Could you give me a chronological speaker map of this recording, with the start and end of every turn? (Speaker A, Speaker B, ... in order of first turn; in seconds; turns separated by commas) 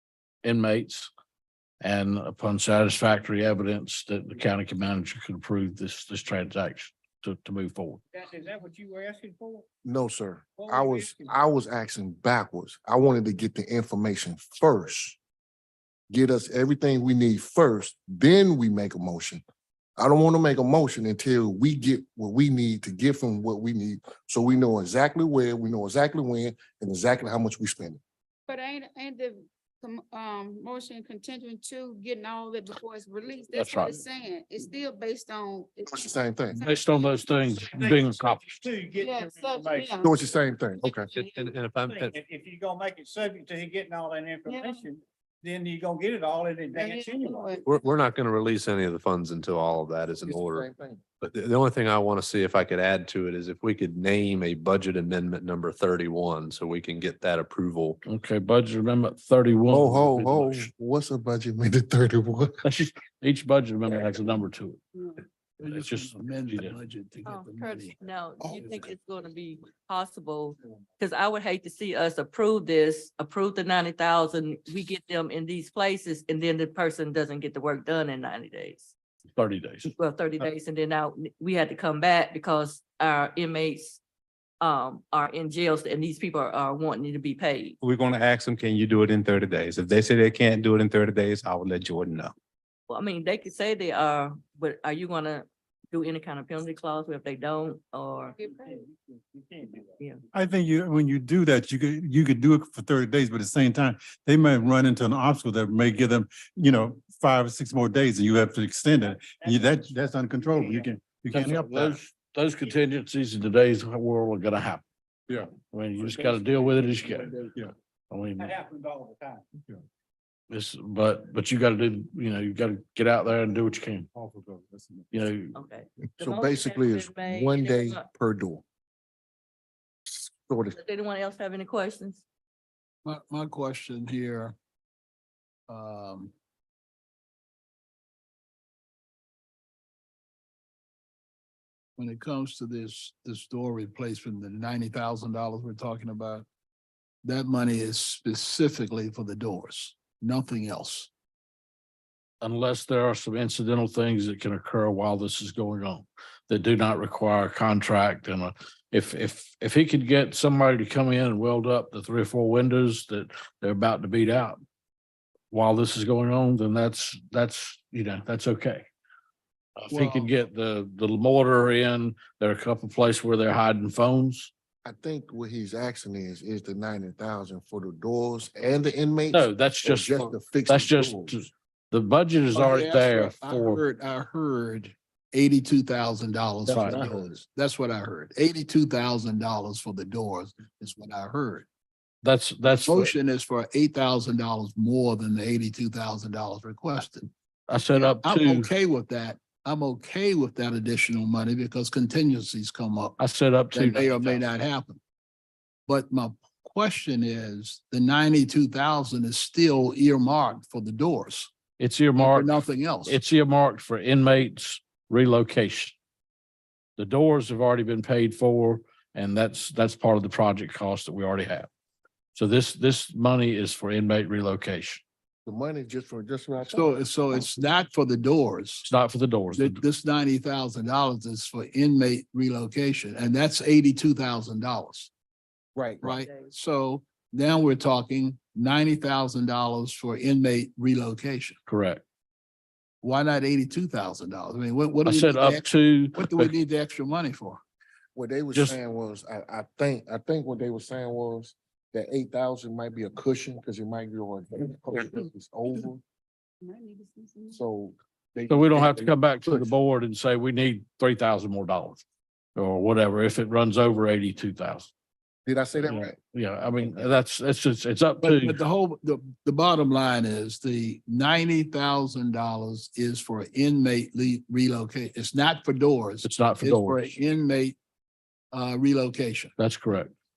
Speaker A: 0.4-1.1, Speaker A: 1.8-8.0, Speaker B: 8.1-9.7, Speaker C: 9.8-15.2, Speaker B: 10.6-11.2, Speaker C: 16.1-19.4, Speaker C: 20.0-28.0, Speaker D: 28.5-36.0, Speaker A: 33.5-34.0, Speaker C: 35.9-36.6, Speaker A: 36.5-38.6, Speaker B: 37.8-40.0, Speaker D: 39.0-40.1, Speaker C: 40.0-41.1, Speaker E: 40.8-42.2, Speaker B: 41.9-47.5, Speaker D: 44.5-44.7, Speaker D: 46.7-47.6, Speaker E: 47.6-50.7, Speaker C: 50.2-51.0, Speaker E: 51.2-58.0, Speaker A: 58.0-60.7, Speaker C: 59.7-62.6, Speaker A: 62.6-64.8, Speaker F: 65.6-68.0, Speaker A: 65.6-66.8, Speaker G: 67.2-78.9, Speaker C: 68.4-68.9, Speaker A: 79.3-79.9, Speaker G: 79.8-84.0, Speaker G: 84.6-87.7, Speaker H: 87.8-92.3, Speaker G: 92.9-98.4, Speaker D: 98.4-98.7, Speaker B: 98.4-98.9, Speaker I: 100.3-112.0, Speaker B: 109.4-109.8, Speaker A: 111.3-114.8, Speaker A: 115.7-117.3, Speaker B: 116.0-117.4, Speaker A: 118.1-118.5, Speaker B: 118.4-119.4, Speaker A: 120.5-124.1, Speaker I: 124.1-125.2, Speaker A: 125.1-125.5, Speaker G: 125.5-128.1, Speaker C: 126.2-128.6, Speaker C: 130.1-130.8, Speaker G: 130.7-132.2, Speaker F: 133.0-134.5, Speaker F: 135.7-136.3, Speaker F: 142.0-146.4, Speaker F: 147.2-151.1, Speaker A: 152.4-164.6, Speaker A: 165.5-168.8, Speaker A: 169.8-174.5, Speaker F: 169.9-170.3, Speaker C: 174.8-181.4, Speaker A: 179.3-183.8, Speaker F: 182.5-191.7, Speaker A: 186.7-187.0, Speaker C: 186.7-187.4, Speaker A: 192.2-193.1, Speaker F: 192.7-197.3, Speaker A: 197.7-198.7, Speaker F: 197.9-203.2, Speaker A: 203.2-204.4, Speaker F: 203.7-205.0, Speaker F: 205.9-211.5, Speaker A: 211.8-215.9, Speaker F: 212.2-213.2, Speaker A: 217.0-221.7, Speaker A: 222.3-225.0, Speaker C: 225.4-227.6, Speaker F: 226.7-228.9, Speaker A: 228.8-229.8, Speaker F: 229.5-235.1, Speaker C: 235.7-236.0, Speaker G: 236.0-236.5, Speaker F: 236.0-241.6, Speaker A: 241.7-242.0, Speaker F: 243.0-247.6, Speaker A: 245.0-246.5, Speaker C: 248.1-256.0, Speaker D: 256.6-257.6, Speaker C: 257.5-259.7, Speaker A: 258.5-262.0, Speaker A: 262.6-264.9, Speaker C: 265.4-266.2, Speaker A: 265.8-268.6, Speaker C: 266.8-267.1, Speaker F: 268.2-277.8, Speaker A: 276.2-277.2, Speaker F: 278.5-279.5, Speaker A: 279.6-280.1